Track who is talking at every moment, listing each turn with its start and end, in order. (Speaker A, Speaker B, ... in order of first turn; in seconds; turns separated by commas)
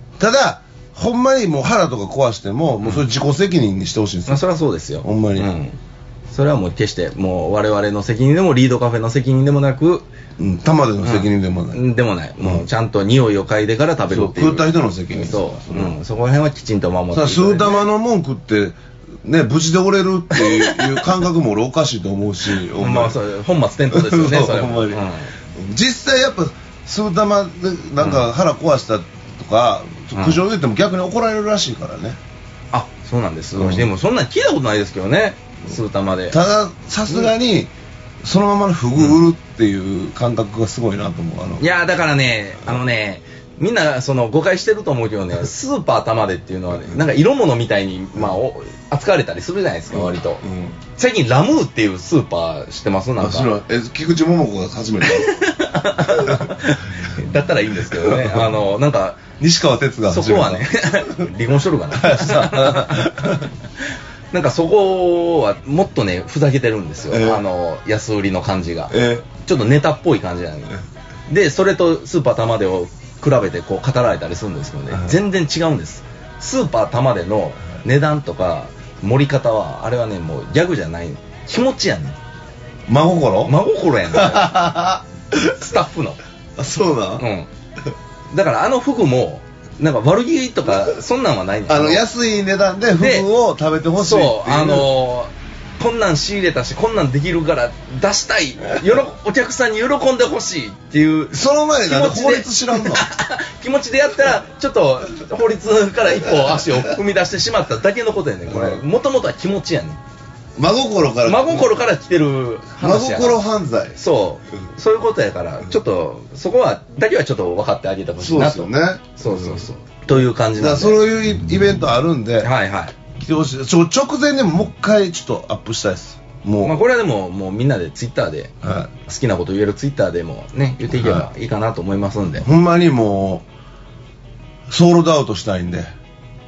Speaker A: 0.2-4.4, Speaker B: 4.3-5.8, Speaker A: 5.0-5.5, Speaker B: 6.3-10.1, Speaker A: 10.4-11.8, Speaker B: 11.0-17.9, Speaker A: 12.4-12.7, Speaker A: 14.1-16.0, Speaker A: 17.1-23.2, Speaker B: 20.4-21.0, Speaker B: 22.8-25.3, Speaker A: 23.9-32.2, Speaker B: 28.0-28.3, Speaker B: 30.1-30.4, Speaker B: 32.7-36.4, Speaker A: 33.5-33.9, Speaker A: 36.3-41.6, Speaker B: 41.6-50.4, Speaker A: 49.9-50.8, Speaker B: 51.0-53.5, Speaker A: 53.2-55.4, Speaker B: 55.0-59.2, Speaker A: 56.0-56.7, Speaker A: 57.8-58.6, Speaker A: 59.4-61.3, Speaker B: 60.1-63.4, Speaker A: 61.9-63.5, Speaker B: 64.3-82.2, Speaker A: 67.1-67.4, Speaker A: 68.9-69.3, Speaker A: 74.9-75.2, Speaker A: 82.9-83.6, Speaker B: 83.5-84.7, Speaker A: 84.1-85.4, Speaker B: 85.4-86.2, Speaker A: 86.6-87.3, Speaker B: 87.2-87.5, Speaker B: 88.3-92.0, Speaker A: 91.7-94.9, Speaker B: 93.0-93.3, Speaker B: 94.0-110.0, Speaker A: 101.3-103.0, Speaker A: 108.5-108.8, Speaker A: 110.6-111.7, Speaker B: 111.3-113.4, Speaker A: 112.8-114.0, Speaker B: 114.0-121.0, Speaker A: 118.2-119.7, Speaker A: 120.5-122.5, Speaker B: 122.4-123.0, Speaker A: 123.2-126.8, Speaker B: 126.6-128.5, Speaker A: 128.6-128.9, Speaker B: 129.1-132.4, Speaker A: 130.9-131.3, Speaker A: 132.4-133.5, Speaker A: 134.7-135.9